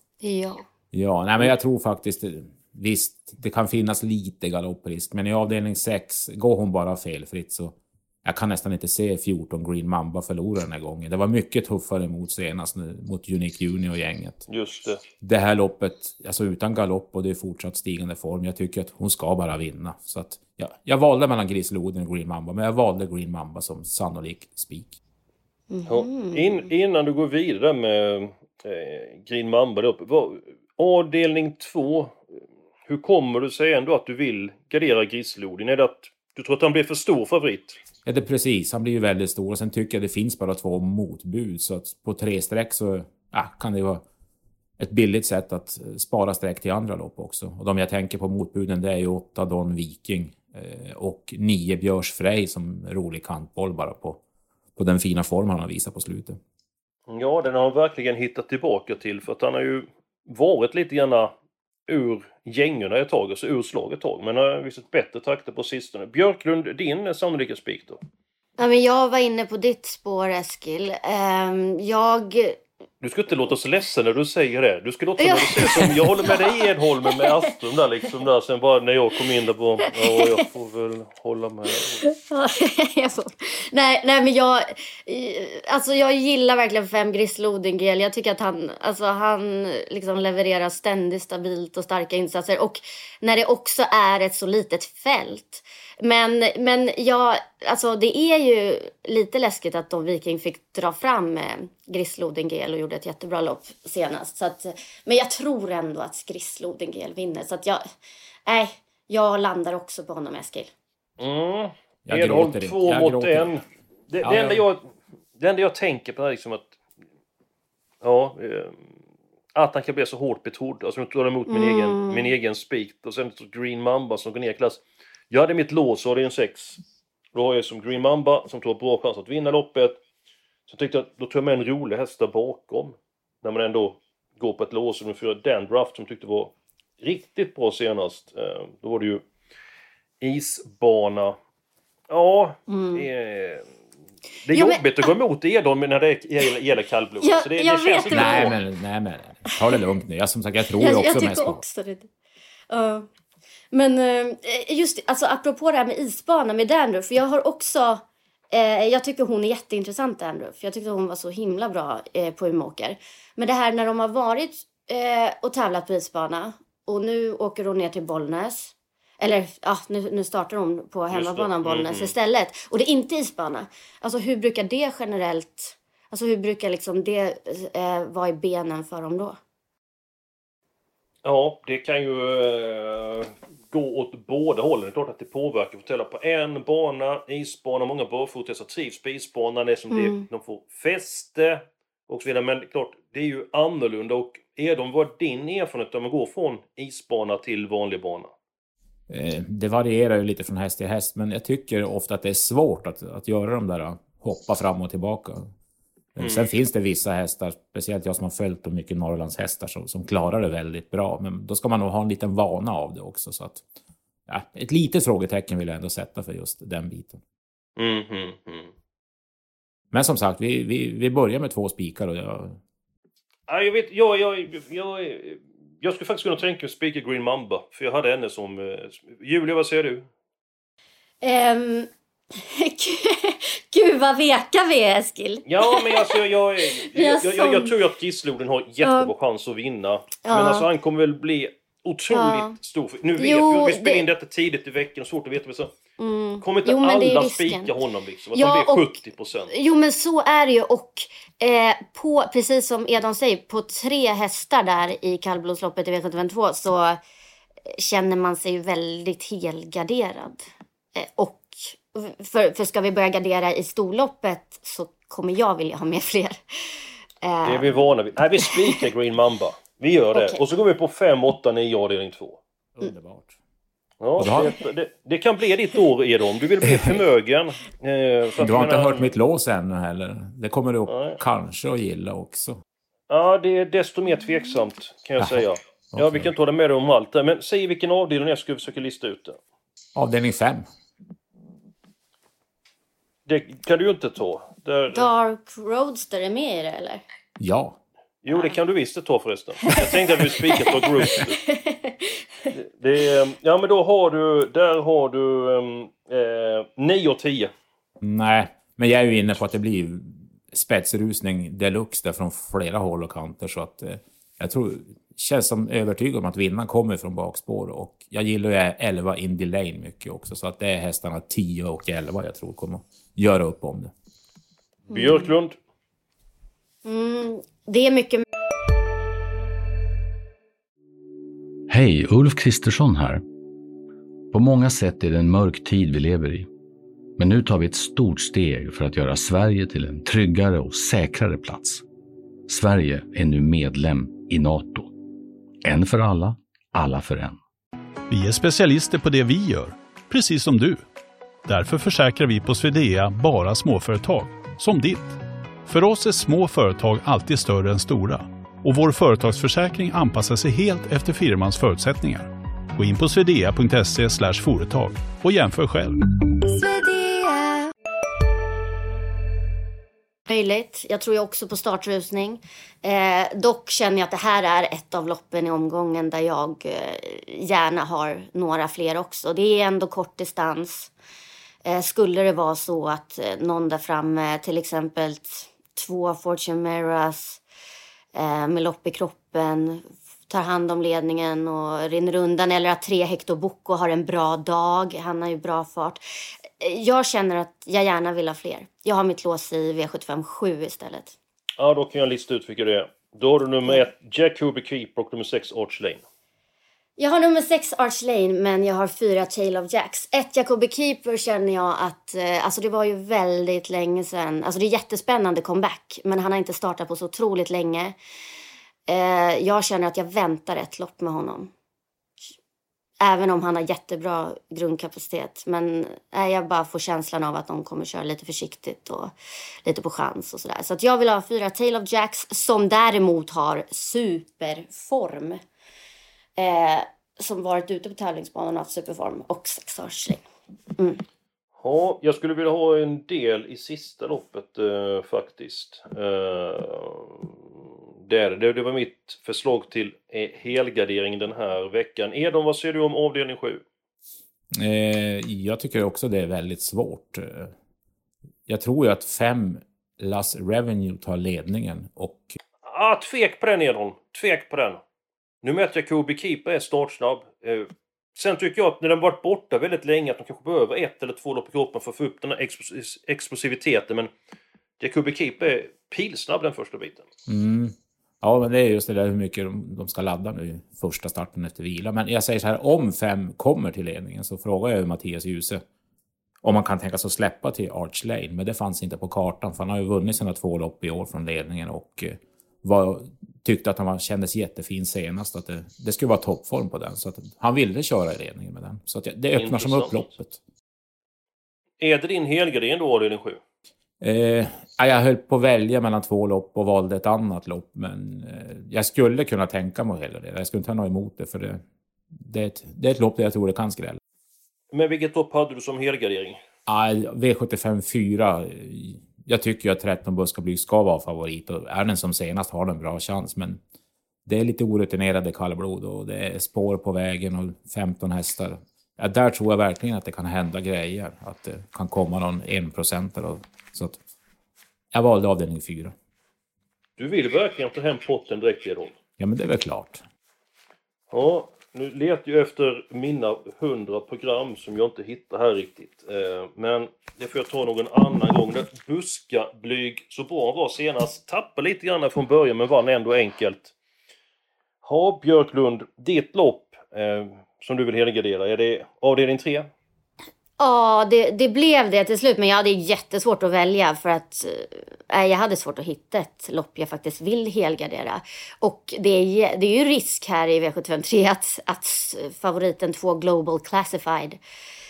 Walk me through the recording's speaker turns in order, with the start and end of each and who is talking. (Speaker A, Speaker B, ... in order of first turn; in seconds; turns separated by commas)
Speaker A: 0.2-0.6, Speaker B: 0.9-14.4, Speaker C: 14.5-15.0, Speaker B: 15.2-25.0, Speaker A: 25.7-26.6, Speaker C: 25.9-32.2, Speaker C: 32.9-37.8, Speaker B: 38.0-44.0, Speaker B: 44.8-54.2, Speaker B: 54.8-56.4, Speaker C: 57.1-61.3, Speaker C: 61.9-68.0, Speaker A: 68.6-72.6, Speaker C: 73.0-82.0, Speaker A: 75.2-77.4, Speaker A: 79.9-80.3, Speaker A: 81.8-107.8, Speaker A: 108.5-110.7, Speaker C: 111.2-116.7, Speaker B: 112.0-113.5, Speaker B: 114.2-114.6, Speaker C: 118.0-118.9, Speaker C: 119.5-126.8, Speaker A: 121.5-122.3, Speaker C: 127.3-130.0, Speaker C: 130.7-139.2, Speaker C: 140.2-141.3, Speaker C: 142.1-143.6, Speaker A: 142.7-143.1, Speaker C: 144.4-148.5, Speaker A: 144.5-145.1, Speaker A: 147.2-148.5, Speaker B: 148.1-151.6, Speaker A: 150.7-152.1, Speaker A: 152.7-153.1, Speaker A: 153.7-179.4, Speaker C: 171.1-172.1, Speaker C: 181.2-198.3, Speaker A: 189.9-190.2, Speaker B: 199.1-205.5, Speaker B: 206.2-213.6, Speaker C: 206.2-206.5, Speaker B: 214.3-217.2, Speaker C: 217.8-218.7, Speaker B: 219.9-222.6, Speaker C: 223.5-230.1, Speaker A: 231.2-236.2, Speaker C: 235.4-245.7, Speaker A: 236.7-237.7, Speaker A: 238.8-239.1, Speaker A: 240.2-240.7, Speaker A: 242.1-242.5, Speaker A: 243.2-244.0, Speaker A: 246.0-247.7, Speaker C: 246.4-249.5, Speaker A: 248.3-249.0, Speaker A: 249.5-257.0, Speaker A: 257.7-260.4, Speaker A: 260.9-266.4, Speaker A: 267.2-267.7, Speaker C: 267.4-272.4, Speaker A: 268.4-268.8, Speaker A: 270.1-270.4, Speaker B: 272.8-273.4, Speaker C: 274.0-279.1, Speaker B: 274.2-274.5, Speaker B: 276.6-277.0, Speaker B: 278.4-282.6, Speaker C: 280.9-281.2, Speaker C: 283.1-289.4, Speaker B: 285.9-286.3, Speaker B: 289.9-290.7, Speaker C: 293.3-295.1, Speaker A: 294.9-297.0, Speaker B: 297.4-297.8, Speaker C: 298.2-301.4, Speaker A: 301.2-302.1, Speaker C: 302.5-307.5, Speaker B: 308.0-323.9, Speaker C: 324.9-325.6, Speaker A: 324.9-325.2, Speaker A: 326.8-328.2, Speaker D: 331.7-333.2, Speaker D: 334.3-336.5, Speaker D: 337.2-341.8, Speaker D: 342.5-344.9, Speaker D: 345.6-347.4, Speaker E: 348.1-350.8, Speaker E: 351.4-366.0, Speaker A: 366.5-367.6, Speaker A: 370.3-380.9, Speaker A: 381.6-387.4, Speaker A: 388.1-396.0, Speaker A: 396.6-401.1, Speaker C: 401.6-406.0, Speaker A: 407.0-417.9, Speaker A: 418.9-421.5, Speaker A: 423.0-429.1, Speaker A: 429.6-435.4, Speaker A: 436.4-440.2, Speaker C: 441.6-447.3, Speaker C: 448.1-453.6, Speaker B: 454.5-457.5, Speaker B: 458.5-462.4, Speaker C: 462.6-464.8, Speaker C: 465.4-474.1, Speaker C: 474.8-477.1, Speaker B: 477.3-485.6, Speaker B: 486.4-500.4, Speaker C: 499.4-500.0, Speaker C: 501.8-503.4, Speaker B: 504.0-514.0, Speaker C: 514.7-516.4, Speaker B: 516.7-523.6, Speaker B: 524.2-534.0, Speaker B: 534.9-535.9, Speaker C: 537.0-538.9, Speaker B: 539.2-540.0, Speaker C: 541.1-553.7, Speaker C: 554.8-559.7, Speaker A: 560.6-574.4